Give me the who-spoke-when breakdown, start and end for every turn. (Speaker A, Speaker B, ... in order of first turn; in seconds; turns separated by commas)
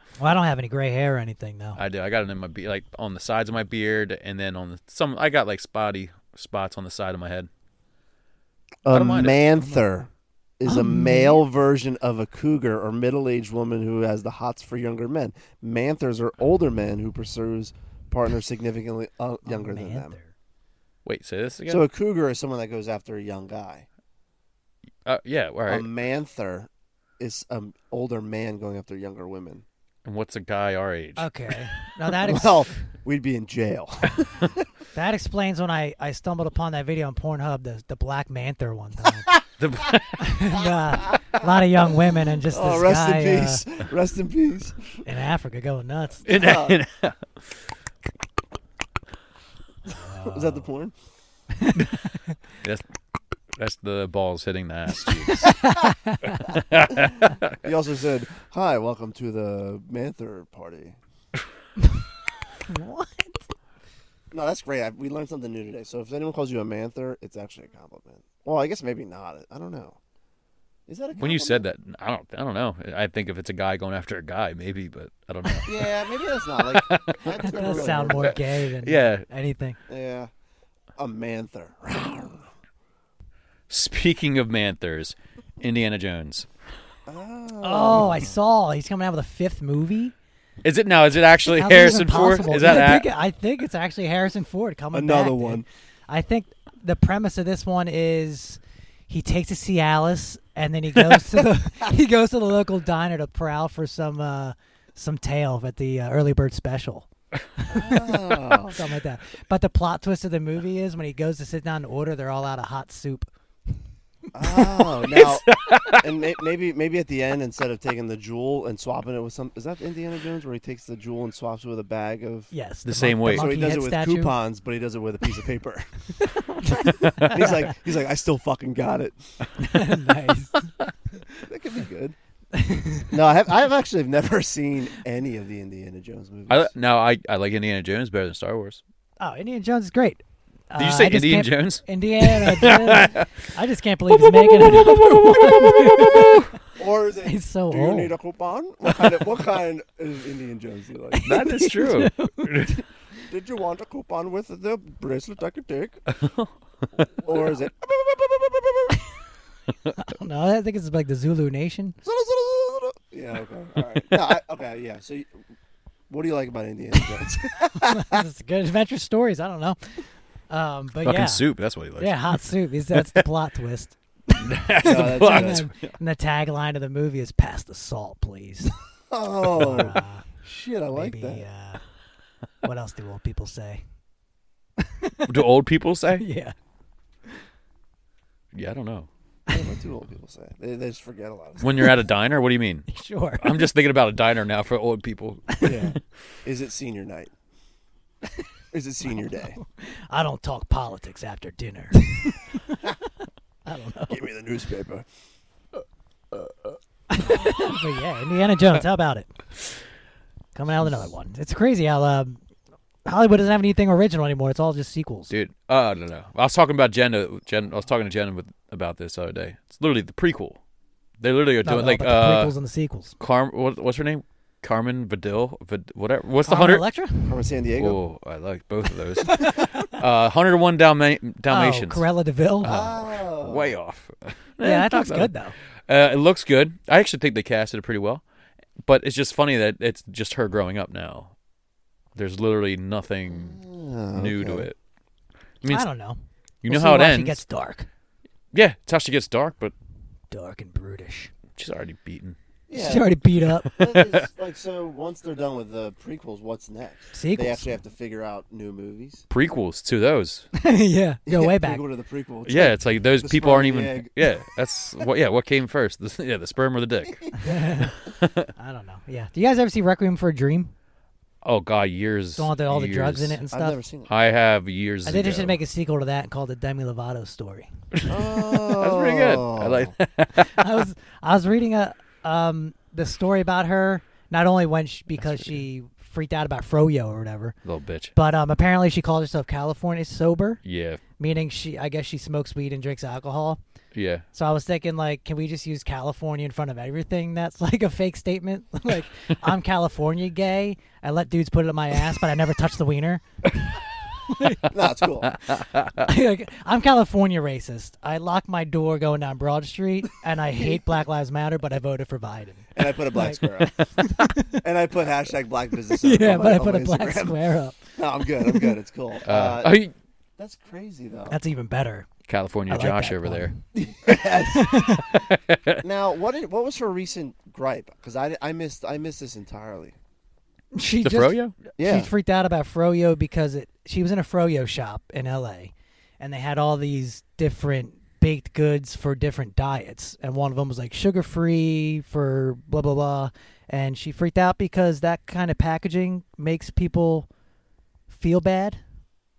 Speaker A: 0.2-1.8, Speaker B: 1.8-7.5, Speaker C: 8.8-20.1, Speaker B: 8.9-9.8, Speaker A: 10.7-11.4, Speaker A: 19.4-20.3, Speaker B: 21.0-21.8, Speaker C: 21.7-23.9, Speaker B: 25.0-25.9, Speaker C: 25.7-29.6, Speaker B: 30.0-31.5, Speaker A: 31.2-32.8, Speaker C: 32.2-34.7, Speaker A: 34.9-39.3, Speaker B: 39.6-40.5, Speaker A: 40.2-43.6, Speaker C: 42.5-45.0, Speaker A: 45.0-46.3, Speaker B: 46.2-47.2, Speaker C: 46.3-46.8, Speaker A: 49.9-50.6, Speaker C: 50.1-50.9, Speaker A: 51.6-52.3, Speaker B: 53.5-55.6, Speaker A: 55.3-56.5, Speaker B: 56.4-57.6, Speaker C: 56.9-61.0, Speaker A: 62.6-63.4, Speaker C: 64.3-70.0, Speaker C: 70.9-71.6, Speaker B: 71.2-75.9, Speaker C: 75.7-78.4, Speaker B: 76.6-79.2, Speaker A: 77.4-79.8, Speaker C: 79.9-80.3, Speaker C: 81.0-82.5, Speaker B: 83.7-86.5, Speaker C: 87.1-88.4, Speaker A: 87.6-90.1, Speaker B: 90.6-93.1, Speaker A: 91.5-113.3, Speaker C: 94.9-95.7, Speaker C: 107.7-108.8, Speaker C: 114.3-122.5, Speaker A: 114.5-114.7, Speaker B: 115.1-116.1, Speaker A: 122.5-124.3, Speaker B: 122.8-123.5, Speaker C: 123.3-125.9, Speaker A: 126.2-127.7, Speaker C: 126.6-129.4, Speaker A: 129.6-130.7, Speaker C: 131.4-132.2, Speaker A: 132.5-133.1, Speaker C: 133.1-136.7, Speaker B: 136.5-138.8, Speaker A: 139.2-146.5, Speaker B: 140.8-143.3, Speaker B: 144.1-146.5, Speaker C: 146.7-151.5, Speaker A: 147.2-148.1, Speaker A: 151.1-152.7, Speaker B: 151.2-152.8, Speaker C: 153.2-156.0, Speaker B: 156.1-156.5, Speaker C: 157.2-159.0, Speaker A: 160.0-161.9, Speaker C: 162.0-165.3, Speaker C: 166.1-168.2, Speaker A: 167.7-171.4, Speaker B: 171.0-173.2, Speaker A: 172.0-178.7, Speaker B: 174.3-175.7, Speaker C: 174.8-175.6, Speaker C: 179.1-181.4, Speaker A: 179.5-180.2, Speaker A: 180.9-181.8, Speaker A: 182.6-183.8, Speaker A: 184.8-185.3, Speaker B: 185.3-186.2, Speaker A: 186.2-186.5, Speaker B: 188.5-189.1, Speaker C: 189.5-191.9, Speaker B: 191.6-192.9, Speaker A: 192.9-193.6, Speaker B: 193.4-196.0, Speaker C: 195.6-197.3, Speaker C: 198.7-199.6, Speaker A: 199.8-202.9, Speaker A: 203.7-204.2, Speaker C: 204.1-205.1, Speaker A: 207.1-209.3, Speaker A: 210.5-212.4, Speaker A: 213.0-215.3, Speaker B: 215.3-220.6, Speaker B: 221.2-222.5, Speaker A: 221.6-223.2, Speaker B: 223.2-226.8, Speaker A: 226.4-227.4, Speaker C: 227.2-228.0, Speaker B: 227.8-232.0, Speaker A: 229.2-229.9, Speaker A: 231.5-232.7, Speaker C: 232.6-233.7, Speaker B: 232.6-235.3, Speaker A: 234.6-235.6, Speaker B: 235.9-238.2, Speaker B: 238.8-241.3, Speaker B: 242.2-243.6, Speaker C: 243.3-244.7, Speaker B: 244.1-244.8, Speaker B: 245.6-245.9, Speaker A: 245.7-247.9, Speaker B: 246.6-247.4, Speaker B: 248.5-249.7, Speaker A: 250.3-251.3, Speaker B: 251.6-252.3, Speaker C: 252.7-253.2, Speaker A: 252.7-253.7, Speaker B: 253.6-254.3, Speaker C: 253.8-259.2, Speaker A: 257.1-257.7, Speaker B: 259.3-260.5, Speaker A: 260.6-261.8, Speaker C: 261.2-264.1, Speaker B: 262.4-267.4, Speaker A: 267.4-267.9, Speaker B: 268.0-268.5, Speaker A: 268.6-270.7, Speaker B: 271.4-273.4, Speaker A: 272.4-273.8, Speaker C: 273.5-274.1, Speaker B: 274.1-275.6, Speaker A: 275.1-277.7, Speaker B: 277.9-280.8, Speaker C: 278.1-279.9, Speaker A: 280.4-287.5, Speaker B: 285.2-285.6, Speaker B: 287.6-288.1, Speaker A: 288.1-290.6, Speaker B: 290.6-291.0, Speaker A: 291.2-293.6, Speaker B: 293.9-294.2, Speaker A: 294.3-303.2, Speaker A: 304.3-304.6, Speaker C: 304.6-305.4, Speaker B: 305.2-306.1, Speaker A: 306.0-314.6, Speaker C: 312.7-313.8, Speaker C: 314.5-317.4, Speaker A: 316.0-317.8, Speaker C: 317.9-319.8, Speaker A: 318.4-318.7, Speaker B: 319.2-319.9, Speaker C: 320.4-321.4, Speaker A: 321.3-322.1, Speaker B: 322.3-323.5, Speaker A: 322.7-323.6, Speaker C: 323.7-324.8, Speaker A: 324.5-325.2, Speaker B: 324.9-325.8, Speaker C: 325.8-329.9, Speaker A: 330.7-347.3, Speaker B: 331.0-331.5, Speaker C: 331.8-332.1, Speaker A: 348.1-348.8